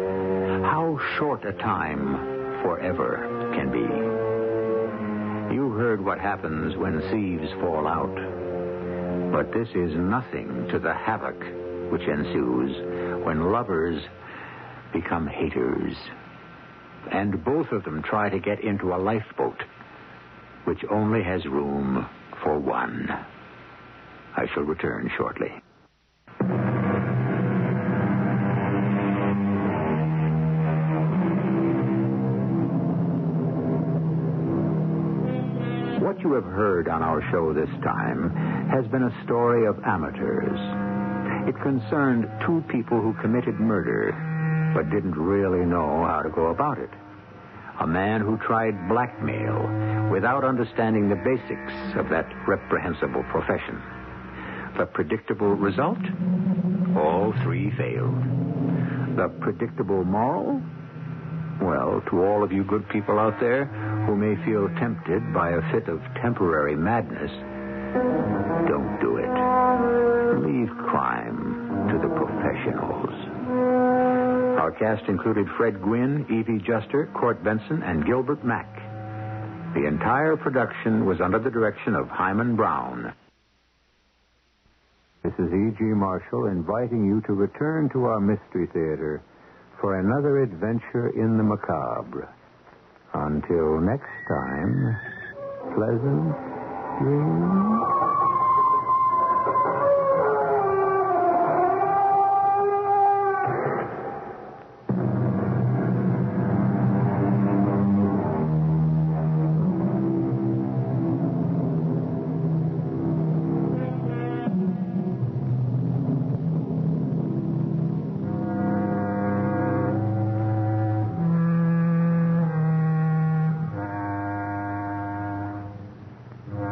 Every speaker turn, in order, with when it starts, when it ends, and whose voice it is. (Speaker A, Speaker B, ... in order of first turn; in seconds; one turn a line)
Speaker A: 0.5-4.3
Speaker A: 5.5-8.4
Speaker A: 9.3-14.1
Speaker A: 14.9-16.1
Speaker A: 17.1-19.7
Speaker A: 20.6-23.2
Speaker A: 24.3-25.6
Speaker A: 35.9-47.0
Speaker A: 47.8-53.9
Speaker A: 54.7-56.2
Speaker A: 56.9-58.3
Speaker A: 59.1-60.6
Speaker A: 61.6-67.4
Speaker A: 68.6-69.5
Speaker A: 70.3-73.4
Speaker A: 74.5-78.9
Speaker A: 79.7-83.1
Speaker A: 85.2-89.2
Speaker A: 89.8-92.3
Speaker A: 93.1-95.0
Speaker A: 95.7-97.9